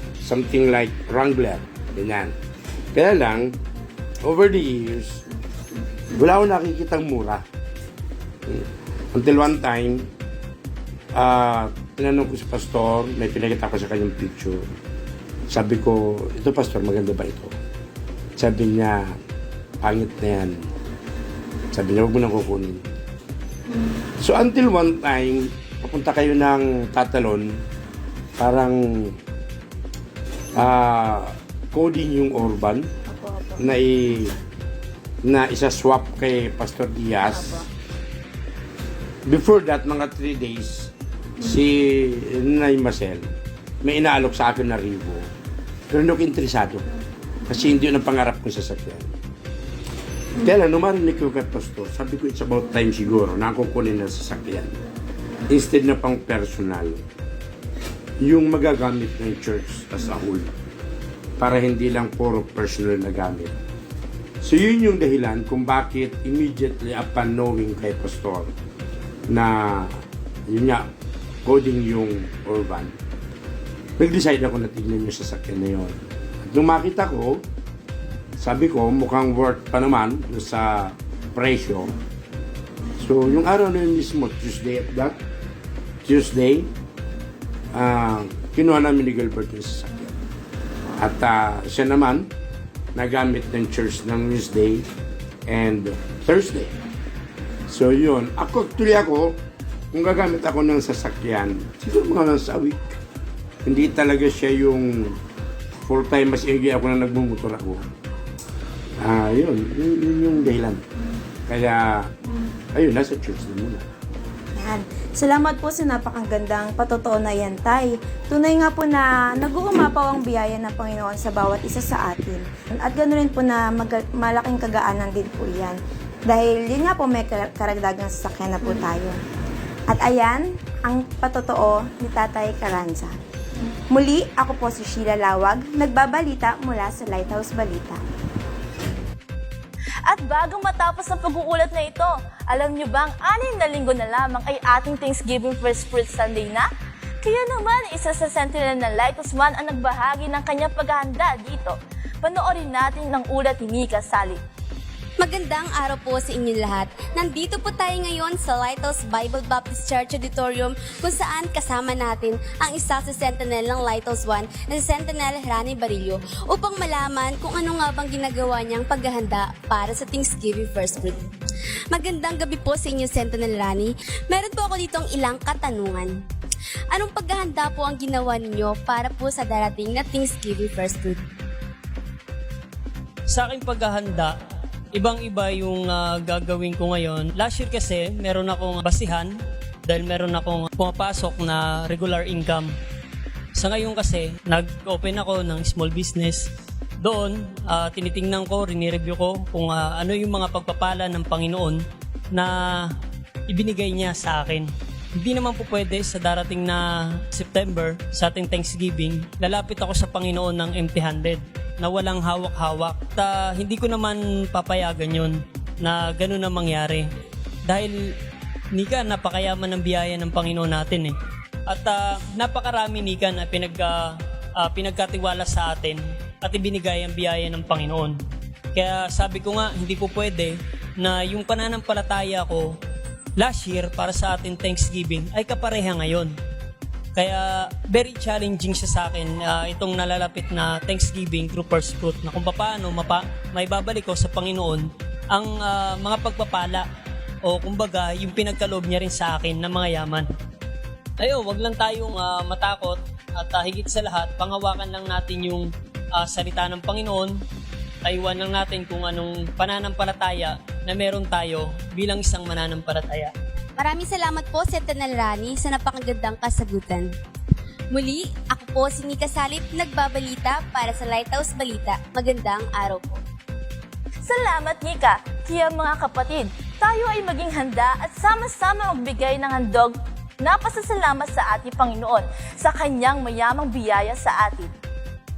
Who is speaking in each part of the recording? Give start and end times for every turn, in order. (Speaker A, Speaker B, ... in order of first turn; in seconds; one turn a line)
Speaker A: 0.2-2.3
Speaker A: 2.9-3.6
Speaker A: 4.2-5.2
Speaker A: 6.1-7.4
Speaker A: 8.5-10.1
Speaker A: 11.1-14.6
Speaker A: 15.5-17.5
Speaker A: 18.4-19.1
Speaker A: 19.8-20.6
Speaker A: 21.7-22.9
Speaker A: 24.2-27.6
Speaker A: 28.4-29.1
Speaker A: 30.5-32.9
Speaker B: 33.1-33.6
Speaker A: 33.6-34.3
Speaker A: 35.2-37.6
Speaker B: 37.3-37.6
Speaker A: 39.2-43.3
Speaker A: 43.8-45.3
Speaker A: 45.9-46.8
Speaker A: 47.5-49.1
Speaker A: 50.4-54.8
Speaker A: 55.5-57.0
Speaker A: 58.2-60.5
Speaker A: 61.4-63.5
Speaker A: 64.4-68.5
Speaker A: 69.3-70.8
Speaker A: 71.4-72.9
Speaker A: 74.0-77.4
Speaker A: 78.4-81.9
Speaker A: 83.0-85.2
Speaker A: 86.0-86.7
Speaker A: 87.7-90.1
Speaker A: 91.0-92.3
Speaker A: 92.9-94.8
Speaker A: 95.5-96.7
Speaker A: 97.7-99.4
Speaker A: 99.9-103.0
Speaker A: 103.6-105.2
Speaker A: 105.8-107.8
Speaker A: 109.0-110.8
Speaker A: 111.5-112.1
Speaker A: 112.7-113.8
Speaker B: 114.5-129.2
Speaker B: 129.9-133.2
Speaker B: 133.9-138.0
Speaker C: 140.1-146.7
Speaker C: 147.2-154.4
Speaker D: 155.2-171.2
Speaker D: 171.9-176.2
Speaker D: 176.9-181.2
Speaker E: 183.3-184.3
Speaker E: 184.9-189.3
Speaker E: 189.8-192.7
Speaker E: 193.5-196.5
Speaker E: 197.0-201.8
Speaker E: 202.3-202.9
Speaker E: 203.5-217.1
Speaker E: 217.7-217.9
Speaker E: 218.7-221.2
Speaker E: 221.7-224.0
Speaker E: 224.6-228.2
Speaker E: 228.7-232.7
Speaker E: 233.4-236.3
Speaker E: 237.2-246.8
Speaker E: 247.4-250.3
Speaker E: 251.2-257.4
Speaker E: 258.0-263.3
Speaker D: 263.8-267.1
Speaker D: 267.9-273.2
Speaker C: 274.2-284.7